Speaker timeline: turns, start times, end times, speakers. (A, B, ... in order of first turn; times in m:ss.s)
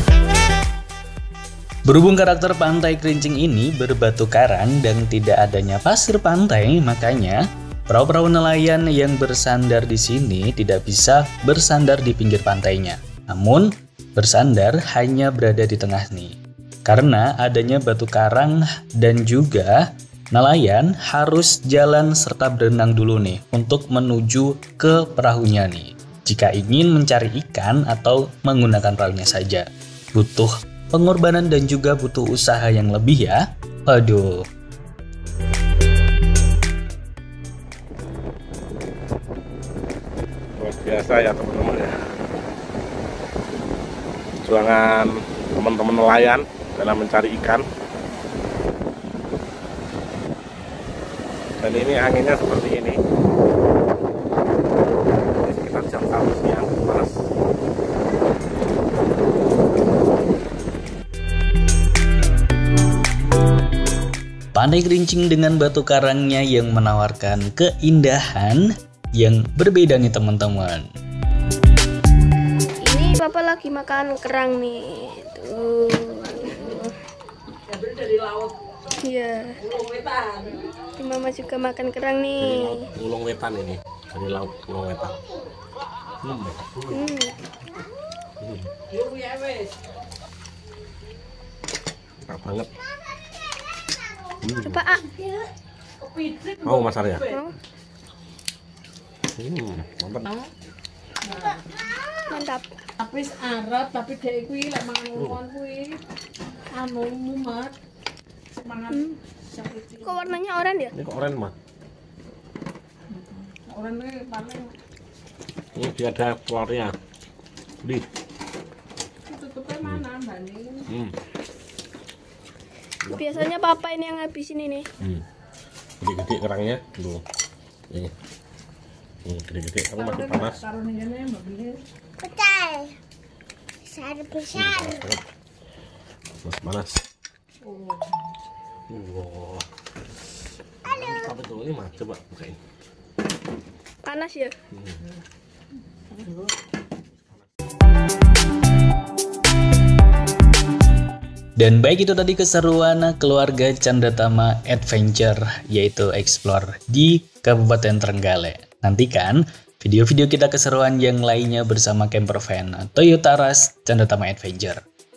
0:01.9-0:34.4 A
0:40.6-0:42.0 B
0:44.4-0:47.6 B
0:51.6-0:53.0 B
0:55.1-0:57.1 B
1:04.5-1:10.9 A
1:12.8-1:17.0 C
1:18.0-1:18.5 D
1:19.0-1:19.6 C
1:19.8-1:20.6 D
1:21.0-1:22.9 C
1:22.4-1:25.2 B
1:26.2-1:26.9 B
1:26.9-1:27.4 C
1:28.4-1:28.7 B
1:29.0-1:29.7 D
1:32.3-1:32.7 B
1:34.4-1:34.8 B
1:34.6-1:35.1 C
1:36.1-1:36.8 D
1:36.6-1:37.3 B
1:37.3-1:37.5 C
1:39.4-1:40.4 B
1:41.3-1:41.6 D
1:42.3-1:42.7 C
1:43.0-1:46.0 D
1:45.2-1:45.4 B
1:46.7-1:47.8 D
1:48.6-1:49.0 D
1:48.9-1:49.2 C
1:49.5-1:50.3 D
1:50.0-1:50.9 C
1:50.9-1:51.5 B
1:53.1-1:54.7 D
1:55.8-1:56.9 B
1:59.3-2:00.9 D
2:00.9-2:01.2 B
2:03.0-2:03.4 B
2:03.1-2:04.9 C
2:06.0-2:07.2 B
2:09.2-2:10.6 B
2:10.0-2:11.8 D
2:12.3-2:12.9 C
2:14.5-2:15.2 B
2:16.4-2:17.0 B
2:17.7-2:18.0 D
2:18.9-2:19.6 B
2:20.8-2:22.6 B
2:24.0-2:24.5 C
2:24.7-2:25.0 B
2:31.6-2:44.8 A